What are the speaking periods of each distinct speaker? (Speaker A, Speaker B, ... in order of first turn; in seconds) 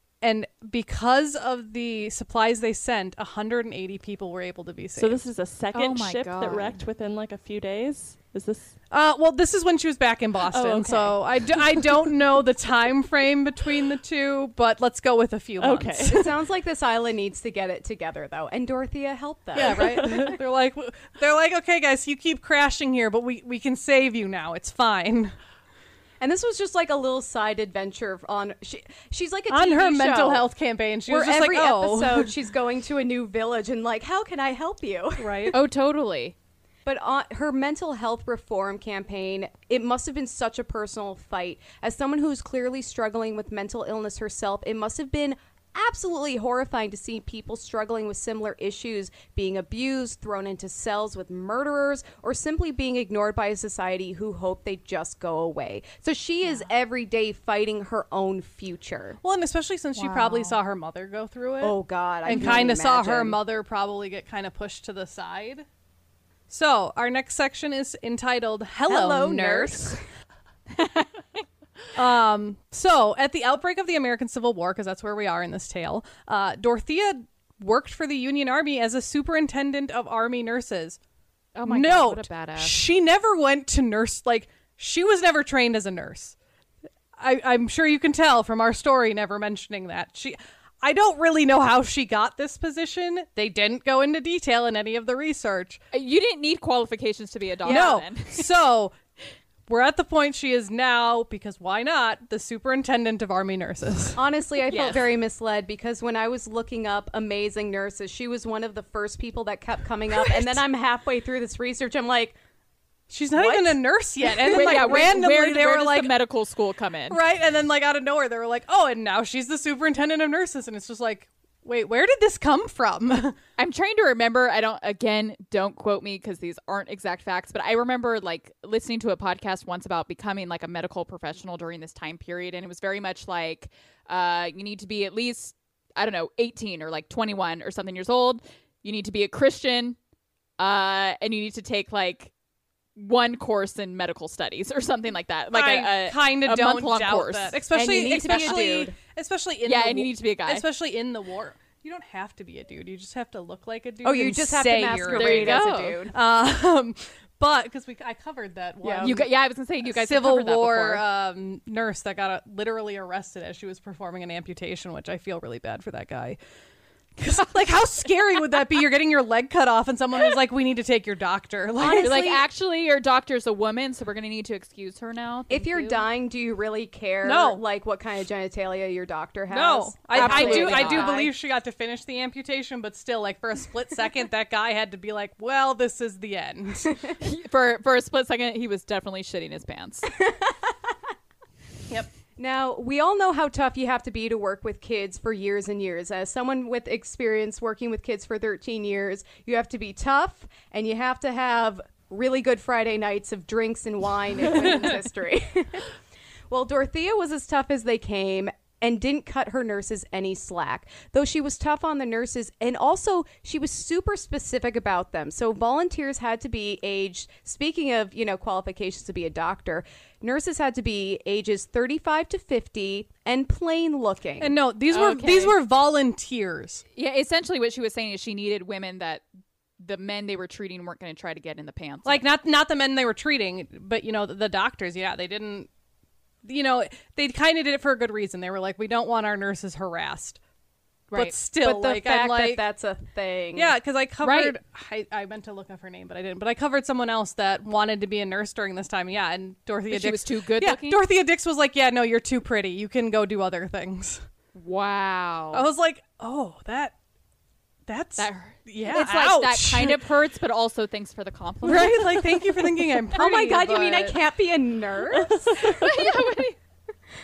Speaker A: 0.2-5.3, 8.9-16.3, 19.5-25.4, 29.5-32.3, 35.2-35.5, 59.2-65.6, 66.5-70.0, 71.9-81.0, 81.7-86.3, 87.2-95.8, 97.6-98.9, 99.7-104.2, 113.1-116.1, 117.1-123.3, 145.5-159.3, 159.8-166.4, 167.2-172.2, 177.2-177.6, 179.5-187.0, 224.4-226.8, 232.0-235.7, 236.4-240.4, 241.1-242.6, 243.5-254.2, 255.5-256.9, 257.9-260.0, 261.6-264.2
Speaker B: 5.0-8.8, 10.4-11.9, 15.6-16.3, 19.8-20.3, 265.1-265.9
Speaker C: 5.7-6.8, 35.5-36.3, 60.0-60.6, 70.7-71.4, 81.5-82.8, 95.9-98.5, 104.7-105.1, 114.5-117.2, 123.6-140.0, 140.6-142.3, 142.9-147.6, 149.6-150.6, 155.1-156.0, 159.0-161.0, 172.0-176.0, 180.1-181.1, 187.2-190.1, 224.9-225.6, 226.9-229.2, 229.8-232.2, 244.2-244.6, 249.9-251.0, 254.5-255.7, 258.2-262.4, 265.7-266.6
Speaker D: 16.0-20.4, 26.2-30.5, 31.1-35.5, 36.8-59.2, 61.6-63.4, 68.8-70.0, 97.6-97.9, 104.2-112.4, 113.3-113.7, 114.4-115.1, 147.7-148.9, 154.0-156.1, 158.8-159.1, 171.8-172.4, 175.5-181.3, 190.2-190.9, 192.4-205.8, 206.5-224.6, 241.6-243.8, 263.1-265.9